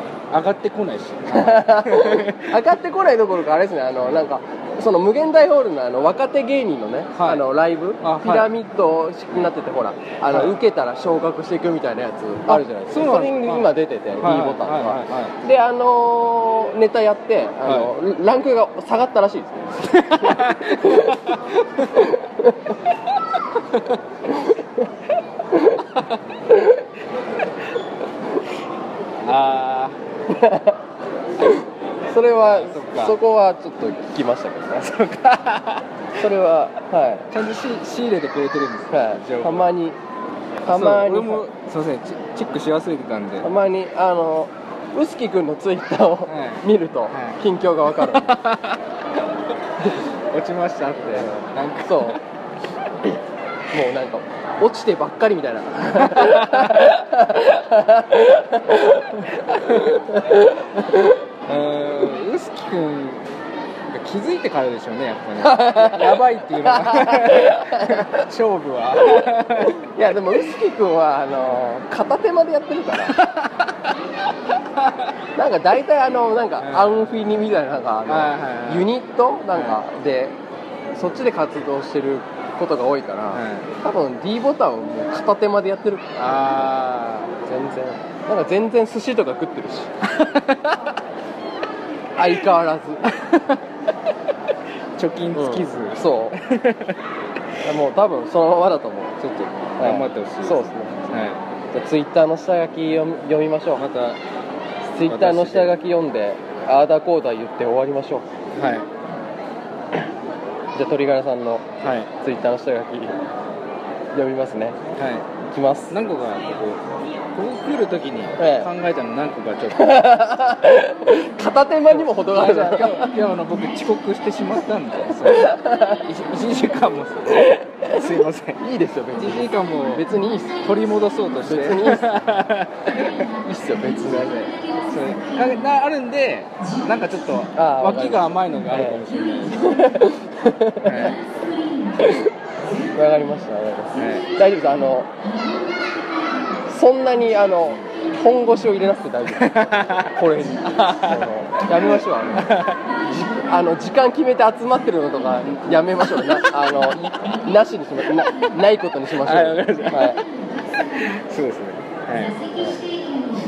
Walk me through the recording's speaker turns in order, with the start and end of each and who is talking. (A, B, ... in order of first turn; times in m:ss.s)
0:00.3-0:02.5 A
0:01.3-0:21.3 B
0:07.2-0:07.4 A
0:08.0-0:08.5 A
0:10.3-0:10.6 A
0:12.5-0:15.3 A
0:17.6-0:17.9 A
0:19.8-0:22.0 A
0:21.9-0:22.7 B
0:24.3-0:24.9 B
0:25.5-0:25.9 B
0:26.5-0:26.8 B
0:29.2-0:30.0 A
0:30.3-0:30.8 B
0:31.4-0:34.9 B
0:32.4-0:33.2 A
0:34.8-0:35.9 A
0:36.2-0:37.3 B
0:37.3-0:39.7 A
0:38.9-0:40.0 B
0:40.6-0:41.5 B
0:40.7-0:43.5 A
0:43.4-0:48.4 B
0:46.3-0:47.4 A
0:47.9-0:48.8 A
0:49.8-0:52.2 A
0:51.2-0:52.2 B
0:53.7-1:01.2 B
0:55.9-0:56.9 A
1:01.5-1:03.3 A
1:03.9-1:09.9 A
1:05.4-1:08.2 B
1:09.0-1:13.2 B
1:13.1-1:13.9 A
1:14.6-1:15.1 A
1:15.4-1:20.4 B
1:16.6-1:17.0 A
1:18.1-1:18.9 A
1:21.0-1:26.2 B
1:23.3-1:23.7 A
1:26.2-1:27.4 A
1:27.4-1:29.9 B
1:30.0-1:30.8 A
1:32.2-1:33.1 B
1:33.1-1:33.6 A
1:35.0-1:37.0 A
1:35.3-1:36.4 B
1:37.6-1:39.2 B
1:39.2-1:41.4 A
1:39.8-1:41.1 B
1:41.7-1:43.8 B
1:43.8-1:44.2 A
1:44.9-1:48.2 B
1:45.0-1:45.8 A
1:48.5-1:48.9 A
1:50.8-1:51.7 B
1:51.8-1:52.1 A
1:52.2-1:53.2 B
1:54.1-1:54.8 B
1:55.0-1:55.3 A
1:55.4-1:56.0 B
1:55.9-1:56.8 A
1:57.3-2:00.0 A
1:58.4-1:58.7 B
1:59.7-2:03.2 B
2:01.9-2:08.6 A
2:05.3-2:06.0 B
2:07.3-2:10.6 B
2:09.2-2:10.1 A
2:10.6-2:13.2 A
2:11.4-2:12.2 B
2:13.4-2:14.5 B
2:14.0-2:19.7 A
2:17.6-2:21.2 B
2:20.8-2:21.2 A
2:22.0-2:22.3 B
2:22.9-2:25.1 B
2:24.0-2:24.3 A
2:26.7-2:40.2 B
2:29.4-2:32.8 A
2:36.2-2:36.5 A
2:39.2-2:40.2 A
2:41.0-2:42.4 A